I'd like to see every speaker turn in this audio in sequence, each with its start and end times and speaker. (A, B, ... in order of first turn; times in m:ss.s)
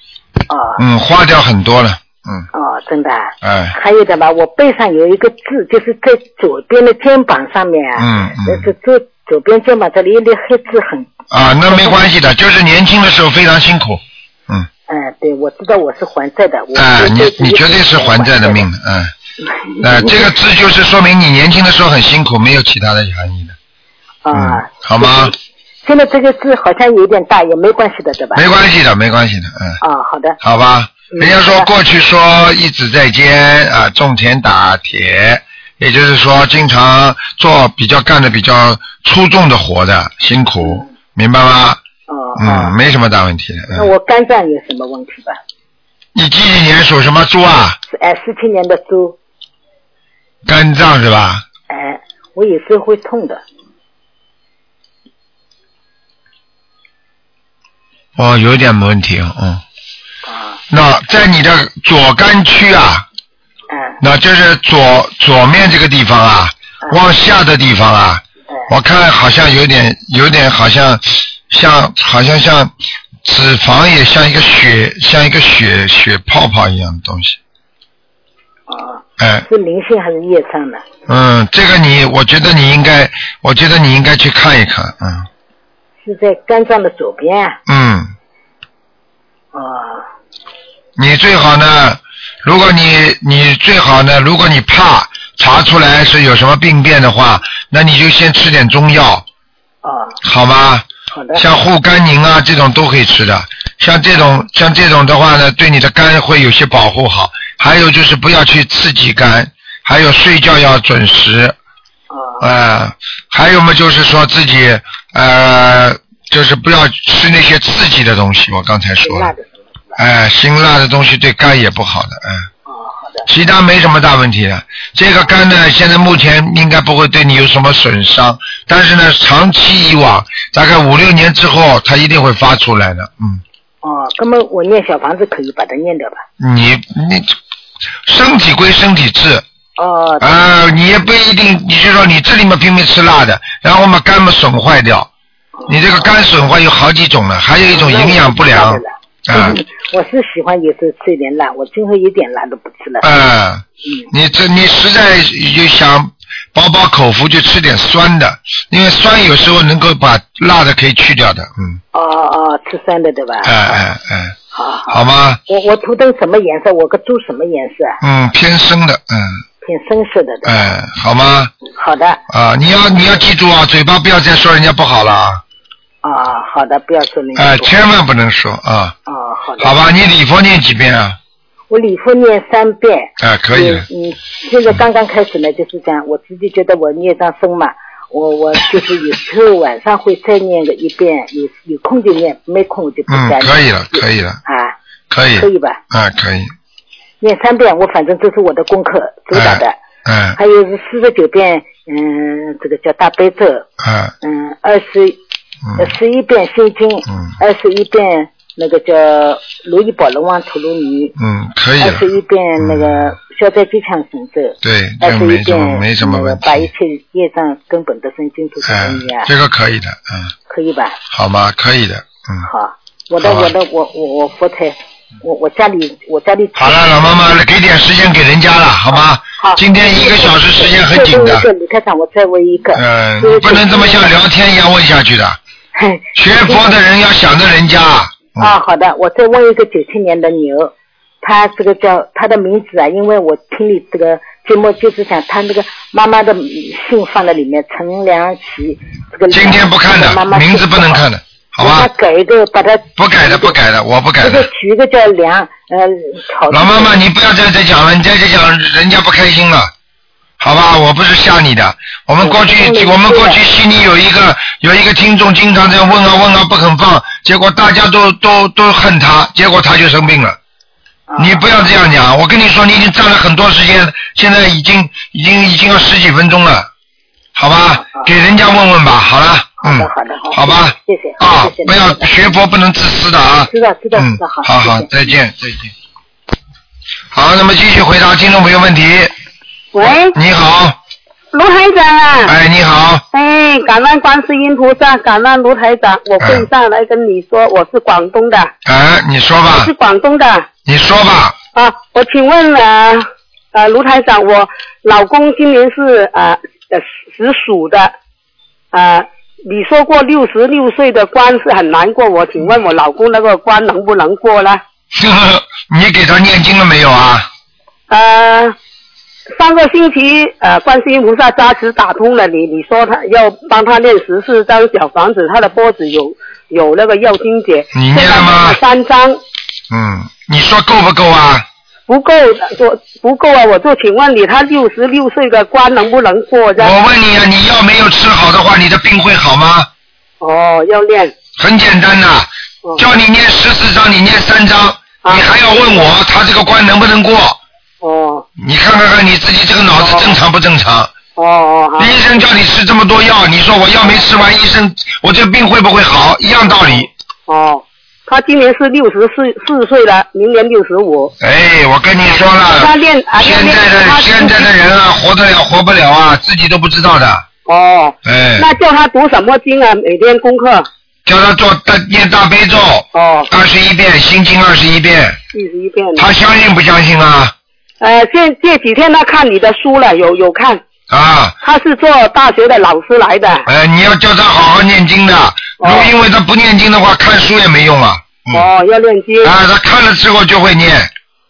0:00.5-0:00.8 A
0:00.8-0:02.5 B
0:02.5-0:11.1 A
0:03.4-0:03.7 B
0:08.0-0:08.7 B
0:11.3-0:14.7 B
0:11.7-0:12.0 A
0:14.9-0:18.7 A
0:16.7-0:19.1 B
0:19.4-0:20.3 A
0:19.8-0:23.6 B
0:24.2-0:25.3 A
0:24.3-0:25.3 B
0:25.8-0:28.4 A
0:28.3-0:29.8 B
0:29.8-0:30.4 A
0:30.4-0:41.8 B
0:31.1-0:31.7 A
0:42.1-0:42.8 A
0:42.4-0:43.9 B
0:43.7-0:45.4 A
0:46.1-0:47.8 B
0:47.9-0:49.2 A
0:50.4-0:51.4 B
0:51.7-0:53.4 A
0:58.2-0:59.6 B
1:00.2-1:00.6 A
1:00.7-1:03.0 B
1:03.7-1:04.0 A
1:04.0-1:12.7 B
1:13.2-1:17.4 B
1:18.7-1:20.8 A
1:19.2-1:19.4 B
1:21.1-1:25.3 B
1:26.0-1:27.6 A
1:27.7-1:28.1 B
1:29.5-1:30.0 A
1:31.0-1:39.2 B
1:39.8-1:40.2 A
1:40.2-1:51.6 B
1:41.1-1:41.4 A
1:52.1-1:52.5 A
1:52.4-1:59.3 B
1:59.0-2:00.0 A
2:00.0-2:02.5 B
2:02.7-2:03.3 A
2:03.3-2:13.4 B
2:13.8-2:16.2 A
2:16.4-2:17.3 B
2:18.0-2:19.4 B
2:19.8-2:20.3 A
2:20.2-2:25.1 B
2:25.6-2:26.1 A
2:25.7-2:29.6 B
2:27.7-2:33.0 A
2:33.0-2:41.8 B
2:41.9-2:43.8 A
2:43.4-2:44.3 B
2:44.5-2:48.0 A
2:44.9-2:45.4 B
2:48.0-2:49.4 B
2:49.6-2:50.7 A
2:50.4-2:51.5 B
2:51.7-2:52.2 A
2:52.3-2:55.4 B
2:56.0-2:57.7 A
2:57.4-2:58.9 B
2:59.1-2:59.8 A
2:59.6-3:01.2 B
3:01.7-3:14.7 A
3:03.2-3:03.8 B
3:13.1-3:14.4 B
3:15.1-3:16.5 B
3:15.3-3:15.8 A
3:17.2-3:19.8 A
3:19.3-3:20.4 B
3:20.4-3:23.7 A
3:23.8-3:24.1 B
3:24.2-3:25.2 A
3:25.6-3:25.9 B
3:25.8-3:31.1 A
3:27.1-3:27.3 B
3:31.2-3:32.1 B
3:31.8-3:39.3 A
3:32.6-3:33.2 B
3:34.6-3:36.7 B
3:38.6-3:40.3 B
3:40.5-3:41.0 A
3:41.1-3:42.5 B
3:42.4-3:47.2 A
3:43.2-3:43.5 B
3:46.6-3:51.5 B
3:49.4-3:54.1 A
3:52.7-3:55.4 B
3:55.7-3:56.8 A
3:56.1-3:58.5 B
3:58.4-4:11.0 A
4:09.3-4:11.9 B
4:11.6-4:13.5 A
4:13.0-4:14.5 B
4:14.2-4:17.0 A
4:16.5-4:19.7 B
4:20.4-4:30.4 B
4:22.2-4:23.4 A
4:31.1-4:31.6 A
4:31.2-4:36.7 B
4:37.3-4:45.7 B
4:39.6-4:42.3 A
4:43.5-4:44.9 A
4:47.1-4:49.1 B
4:49.7-4:50.1 C
4:49.8-4:50.8 B
4:51.3-4:52.3 C
4:52.2-4:53.0 B
4:53.1-4:58.5 C
4:56.2-4:56.5 B
4:58.6-4:59.7 B
4:59.5-5:00.5 C
5:00.6-5:01.4 B
5:01.5-5:07.9 C
5:08.7-5:14.6 C
5:14.9-5:17.3 B
5:17.9-5:18.6 C
5:19.4-5:29.2 C
5:27.7-5:28.6 B
5:29.7-5:31.4 B
5:31.9-5:36.7 C
5:36.6-5:39.7 B
5:40.2-5:41.1 C
5:41.4-5:47.4 B
5:45.0-5:45.3 C
5:47.8-5:48.2 C
5:48.4-5:50.9 B
5:49.8-5:50.2 C
5:51.2-5:52.0 C
5:51.8-5:56.9 B
5:57.3-6:01.1 C
6:01.2-6:07.2 B
6:02.5-6:04.5 C
6:07.4-6:10.7 C
6:08.0-6:08.5 B
6:11.0-6:15.2 B
6:12.9-6:13.3 C
6:15.3-6:16.1 C
6:16.0-6:17.3 B
6:17.8-6:20.6 C
6:20.9-6:21.3 B
6:21.4-6:23.5 C
6:23.4-6:28.5 B
6:25.6-6:25.9 C
6:28.3-6:29.3 C
6:29.2-6:30.9 B